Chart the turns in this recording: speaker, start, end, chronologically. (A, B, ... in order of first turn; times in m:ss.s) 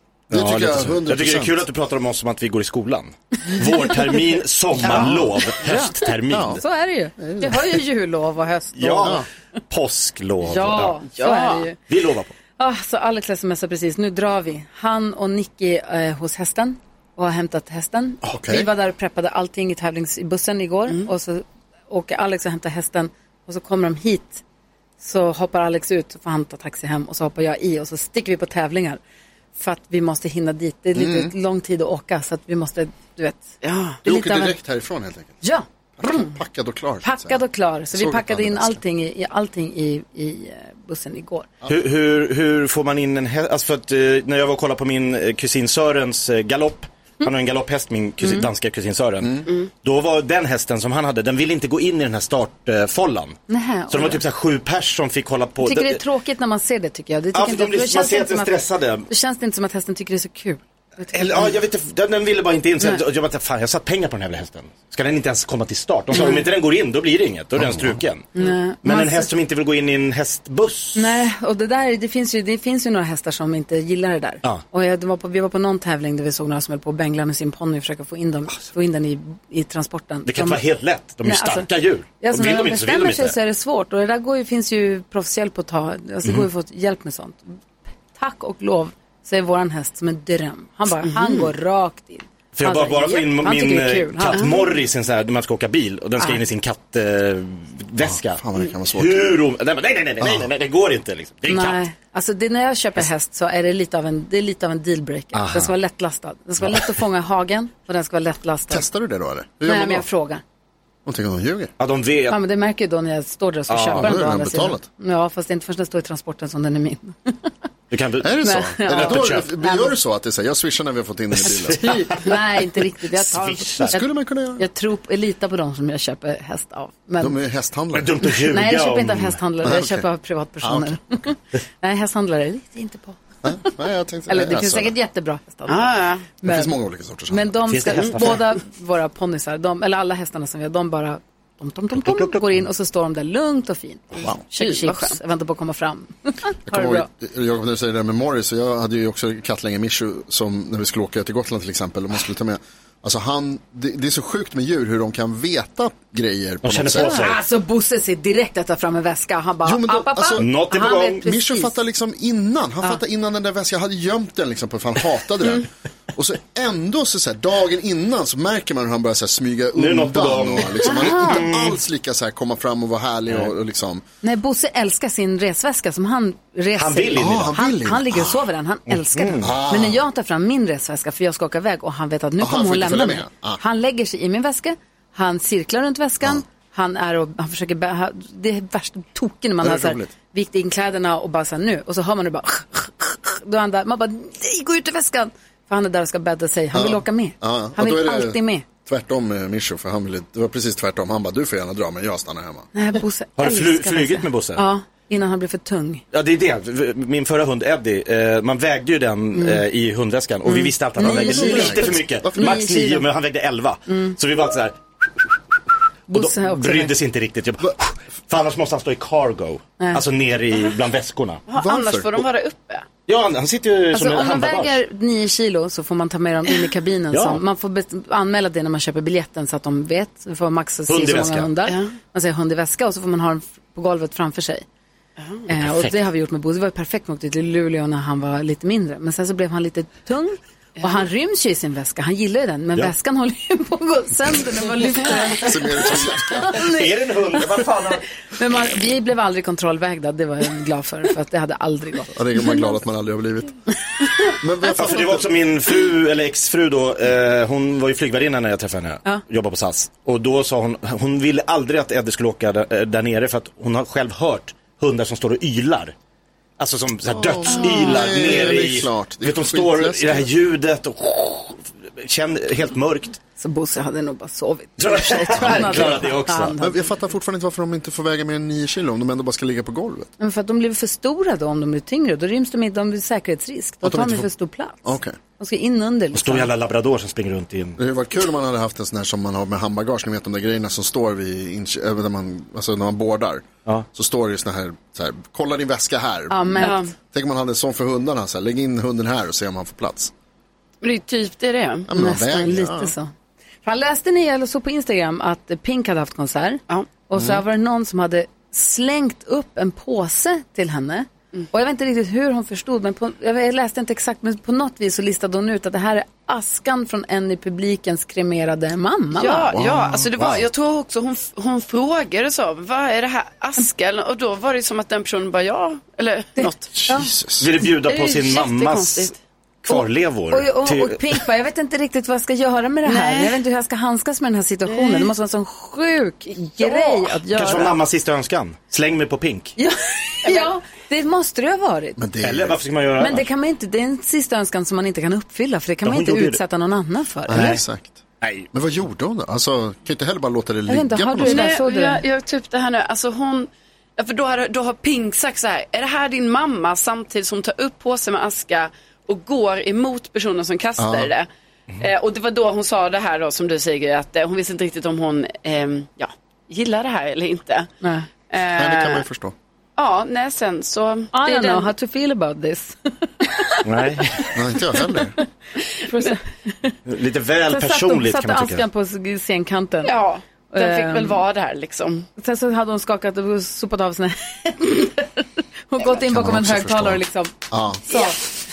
0:00.3-0:01.7 A
0:00.3-0:06.6 B
0:04.8-0:05.2 C
0:04.9-0:05.2 A
0:05.6-0:09.2 D
0:06.3-0:06.6 A
0:07.2-0:07.6 A
0:08.8-0:11.0 B
0:10.4-0:11.8 D
0:11.1-0:11.7 C
0:11.9-0:12.3 B
0:12.6-0:24.4 D
0:18.2-0:18.7 A
0:25.0-0:29.0 D
0:29.6-0:33.5 D
0:31.0-0:31.3 A
0:33.6-0:34.0 C
0:34.0-0:34.6 D
0:34.0-0:35.4 A
0:35.4-0:36.4 D
0:36.0-0:37.4 A
0:37.0-0:41.5 D
0:37.9-0:38.8 A
0:41.7-0:53.4 B
0:48.2-0:48.5 D
0:53.5-0:54.2 D
0:53.9-0:56.0 B
0:55.6-1:01.5 D
0:57.3-0:59.1 B
1:01.1-1:08.3 B
1:06.1-1:06.4 D
1:07.6-1:08.0 A
1:08.4-1:09.3 D
1:08.8-1:11.2 B
1:11.0-1:20.6 D
1:20.3-1:23.4 B
1:21.2-1:27.6 D
1:28.1-1:34.6 D
1:31.0-1:31.5 C
1:32.6-1:41.8 B
1:38.0-1:39.3 A
1:40.2-1:40.5 A
1:41.5-1:48.9 D
1:45.3-1:45.7 B
1:48.7-1:50.1 A
1:49.6-1:50.4 D
1:51.1-1:51.7 A
1:51.8-1:52.4 B
1:52.3-1:57.5 D
1:53.7-1:54.2 B
1:54.0-1:54.8 A
1:57.9-1:59.5 B
1:58.2-2:02.1 A
1:58.4-1:59.9 D
2:01.4-2:02.3 B
2:01.8-2:07.4 D
2:03.2-2:04.0 B
2:03.9-2:04.7 A
2:07.2-2:08.3 A
2:07.9-2:09.7 B
2:08.4-2:13.7 D
2:09.6-2:10.0 A
2:10.6-2:11.2 A
2:13.4-2:14.9 A
2:14.3-2:16.8 D
2:15.7-2:16.3 C
2:16.4-2:17.6 A
2:17.3-2:27.1 D
2:17.7-2:18.5 B
2:21.9-2:22.6 B
2:24.2-2:25.2 C
2:26.7-2:37.2 A
2:36.6-2:37.4 B
2:37.0-2:41.8 D
2:39.6-2:40.5 A
2:40.4-2:41.2 B
2:41.2-2:54.0 A
2:49.8-2:51.8 B
2:50.9-2:51.4 D
2:54.2-3:18.7 D
2:56.8-2:57.5 B
2:57.2-2:58.4 A
2:59.1-2:59.6 B
2:59.4-3:00.0 A
3:02.4-3:03.6 A
3:09.6-3:10.1 A
3:16.7-3:22.7 A
3:22.7-3:26.0 D
3:23.4-3:24.6 B
3:26.1-3:35.4 B
3:29.4-3:29.6 D
3:30.5-3:33.1 D
3:31.0-3:32.6 A
3:33.9-3:34.2 D
3:36.1-3:37.0 D
3:36.1-3:41.4 B
3:41.5-3:42.9 C
3:41.6-3:42.2 A
3:43.1-3:44.8 B
3:43.9-3:54.6 D
3:47.1-3:47.4 B
3:50.9-3:51.5 B
3:51.7-3:51.9 C
3:55.2-3:55.5 C
3:55.5-4:07.6 D
3:55.6-3:56.0 B
4:05.4-4:06.6 A
4:06.4-4:08.0 B
4:08.4-4:12.4 D
4:12.1-4:13.6 A
4:14.4-4:15.3 A
4:14.7-4:25.9 B
4:26.6-4:33.2 B
4:27.1-4:30.3 A
4:27.6-4:27.9 C
4:33.4-4:36.9 D
4:34.8-4:36.6 B
4:35.4-4:36.0 A
4:36.6-4:40.1 A
4:40.2-4:46.5 D
4:43.8-4:44.2 A
4:44.8-4:45.2 A
4:46.1-4:47.8 B
4:47.8-5:00.1 A
4:56.3-4:56.9 D
4:56.6-4:56.9 C
5:00.8-5:01.9 C
5:01.9-5:02.9 A
5:01.9-5:03.1 D
5:03.6-5:19.5 D
5:19.1-5:26.8 C
5:19.5-5:20.4 A
5:26.4-5:27.1 D
5:26.8-5:27.5 A
5:27.4-5:29.1 B
5:27.8-5:29.1 C
5:29.6-5:31.2 B
5:29.7-5:37.8 D
5:32.9-5:33.4 C
5:34.7-5:35.1 C
5:36.5-5:37.2 C
5:37.3-5:39.6 B
5:39.6-5:42.0 D
5:40.2-5:40.5 C
5:42.0-5:42.6 A
5:42.2-5:43.3 B
5:43.0-5:47.6 D
5:45.8-5:46.4 B
5:47.3-5:51.5 A
5:47.3-5:47.6 B
5:48.2-5:48.5 B
5:50.7-5:52.0 D
5:51.2-6:07.7 C
6:00.8-6:01.1 A
6:07.8-6:08.1 D
6:08.3-6:09.0 C
6:08.6-6:09.4 A
6:09.8-6:11.7 C
6:11.1-6:13.6 D
6:13.6-6:14.3 B
6:14.3-6:15.2 A
6:14.8-6:15.2 D
6:15.8-6:16.8 D
6:16.9-6:18.6 B
6:17.5-6:19.9 D
6:19.8-6:22.1 C
6:20.5-6:21.2 D
6:22.2-6:27.3 D
6:26.0-6:27.8 A
6:27.9-6:28.2 D
6:27.9-6:28.2 C